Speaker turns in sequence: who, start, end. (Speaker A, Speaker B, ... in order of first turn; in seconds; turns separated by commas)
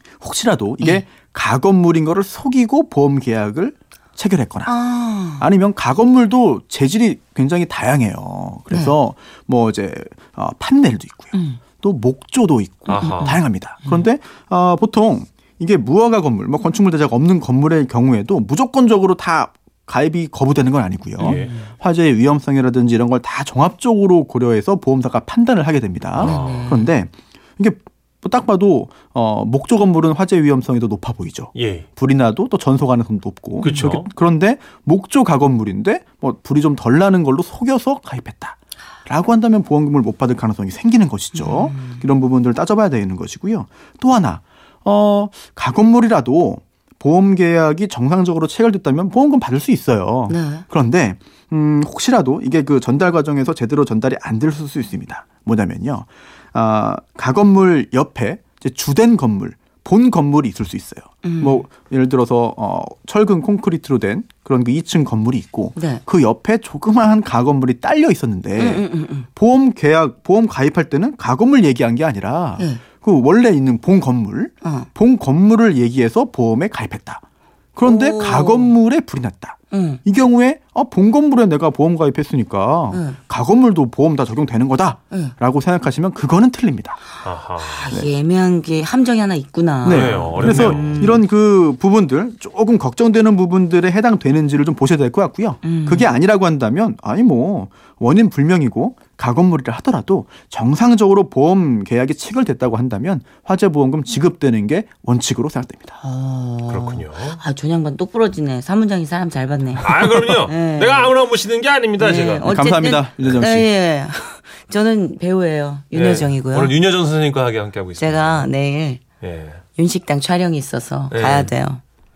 Speaker A: 0.2-4.7, Speaker B: 0.8-1.1, Speaker B: 4.7-5.5, Speaker A: 5.4-77.2, Speaker B: 8.7-9.0, Speaker B: 11.3-11.6, Speaker C: 12.9-13.4, Speaker B: 13.0-14.1, Speaker C: 21.2-21.5, Speaker B: 21.2-21.7, Speaker C: 26.2-26.8, Speaker B: 26.2-26.9, Speaker C: 31.6-31.9, Speaker C: 33.6-34.1, Speaker B: 41.3-42.0, Speaker B: 50.3-50.6, Speaker B: 61.2-61.6, Speaker B: 65.8-66.0, Speaker B: 68.6-69.3, Speaker B: 72.6-72.8, Speaker B: 74.6-74.9, Speaker A: 77.8-87.0, Speaker B: 77.8-78.8, Speaker B: 79.7-80.0, Speaker B: 82.9-83.2, Speaker C: 87.2-87.9, Speaker B: 87.6-91.2, Speaker A: 89.8-106.0, Speaker C: 89.8-91.2, Speaker B: 95.6-96.1, Speaker B: 106.0-111.1, Speaker C: 106.7-107.4, Speaker C: 109.8-112.5, Speaker B: 112.0-116.8, Speaker A: 112.5-113.7, Speaker C: 115.9-118.5, Speaker B: 118.0-119.0, Speaker C: 119.2-119.6, Speaker B: 119.8-121.8, Speaker C: 121.1-121.5